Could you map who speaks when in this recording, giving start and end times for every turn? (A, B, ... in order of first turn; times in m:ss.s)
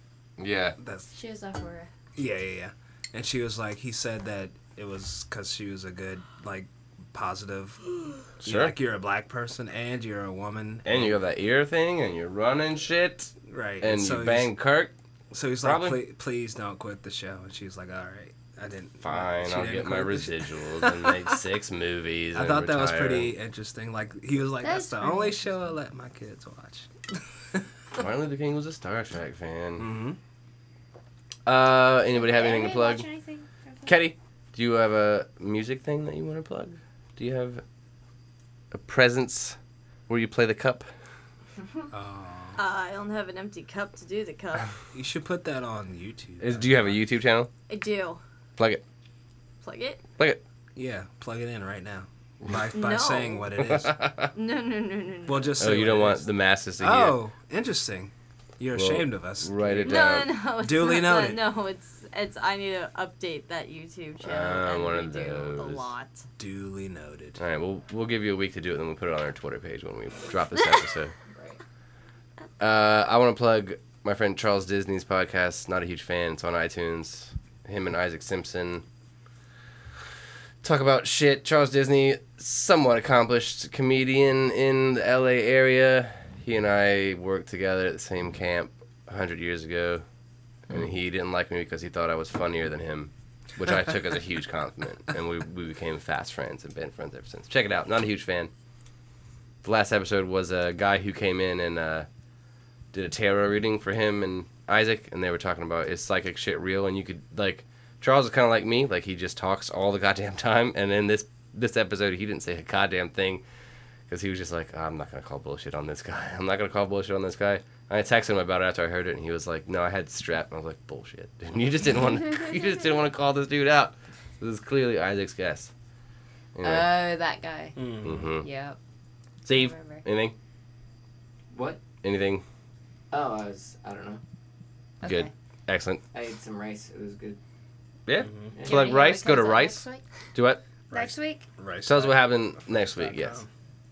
0:00.4-0:00.8 A
0:00.8-0:01.0 B
0:01.1-0:01.9 C
0:02.1-0:11.2 B
0:08.4-0:08.7 A
0:10.8-0:14.9 A
0:13.4-0:14.5 B
0:15.3-0:21.3 B
0:15.6-0:16.0 A
0:19.0-0:23.3 A
0:22.3-0:26.9 B
0:24.6-0:25.4 C
0:28.0-0:29.9 A
0:29.8-0:30.2 B
0:31.4-0:33.1 A
0:32.1-0:33.9 C
0:33.8-0:37.6 A
0:38.7-0:39.6 A
0:40.1-0:40.9 A
0:41.9-0:42.6 B
0:42.6-0:44.7 D
0:44.9-0:47.0 B
0:46.4-0:47.5 A
0:47.7-0:48.2 D
0:48.6-0:48.8 A
0:49.6-0:50.0 D
0:50.8-0:53.9 B
0:52.7-0:53.5 D
0:53.6-0:54.3 A
0:54.3-0:55.6 D
0:55.3-0:56.3 B
0:55.6-0:57.2 A
0:56.8-1:01.4 B
0:58.7-1:00.3 A
0:59.8-1:06.2 D
1:04.2-1:05.9 A
1:06.4-1:07.4 B
1:07.4-1:11.1 A
1:11.3-1:11.6 E
1:12.6-1:18.8 A
1:20.6-1:30.0 A
1:30.7-1:38.5 A
1:39.6-1:42.1 A
1:42.9-1:53.4 A
1:54.1-2:05.7 A
2:06.6-2:07.0 A
2:06.6-2:08.8 C
2:07.8-2:08.4 B
2:08.0-2:08.5 A
2:09.4-2:10.4 A
2:09.5-2:10.0 C
2:11.5-2:11.8 E
2:12.0-2:12.4 A
2:13.1-2:14.2 E
2:15.0-2:15.3 C
2:15.0-2:16.0 A
2:16.1-2:17.4 E
2:18.0-2:19.8 A
2:18.2-2:18.6 B
2:18.5-2:19.2 E
2:18.6-2:20.0 C
2:20.3-2:20.6 A
2:20.9-2:23.5 B
2:20.9-2:21.5 C
2:21.8-2:23.4 A